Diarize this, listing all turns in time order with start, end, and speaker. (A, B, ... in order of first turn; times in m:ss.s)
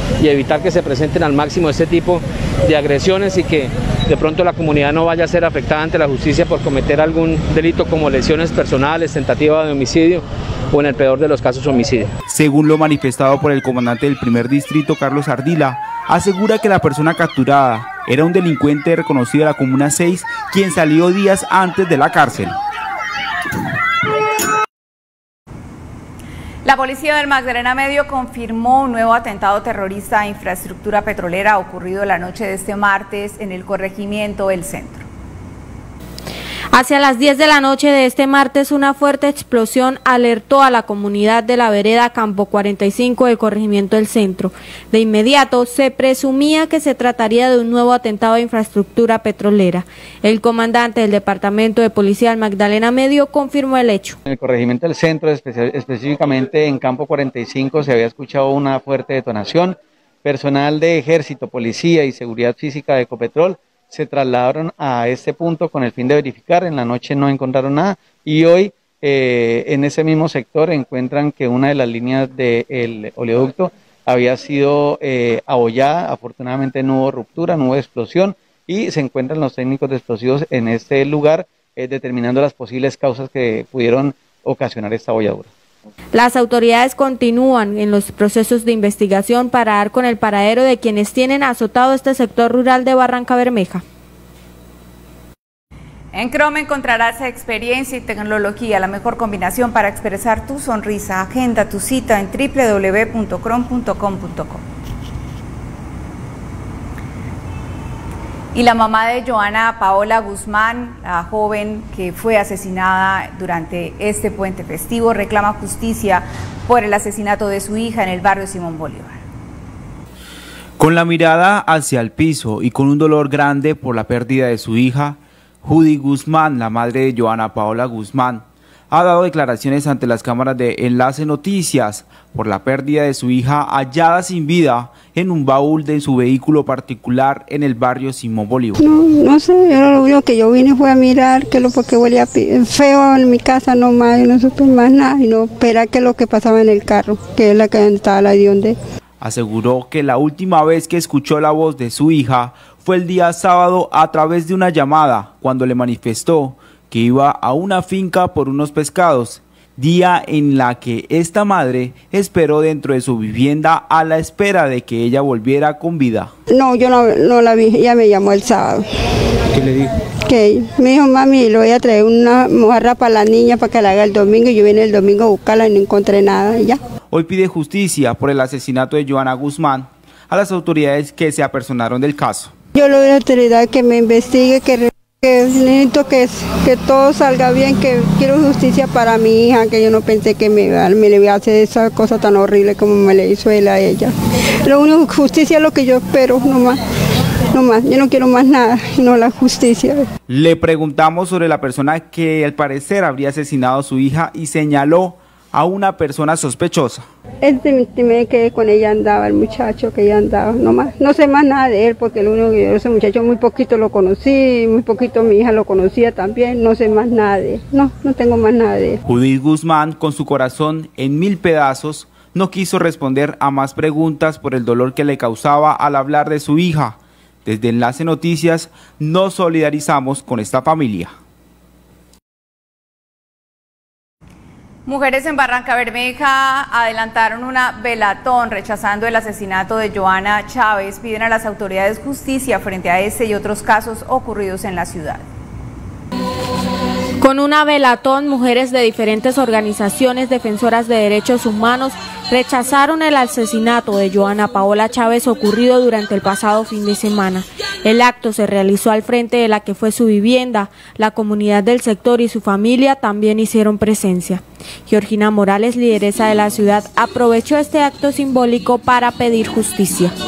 0:00.2-0:12.1 A
0:12.3-0:22.6 B
0:26.6-0:35.0 C
0:36.7-0:54.2 D
0:54.2-1:25.5 E
1:26.1-1:33.8 D
1:36.1-1:44.6 C
1:48.5-1:59.2 C
2:00.8-2:18.8 B
2:18.8-2:28.8 F
2:29.2-2:46.3 B
2:46.5-2:48.8 F
2:50.3-2:56.8 F
2:57.1-3:02.5 B
3:02.7-3:14.1 F
3:14.6-3:16.8 F
3:17.5-3:20.0 F
3:20.3-3:27.1 B
3:27.4-3:39.0 F
3:39.0-3:51.1 B
3:54.8-4:05.2 C
4:07.2-4:30.2 D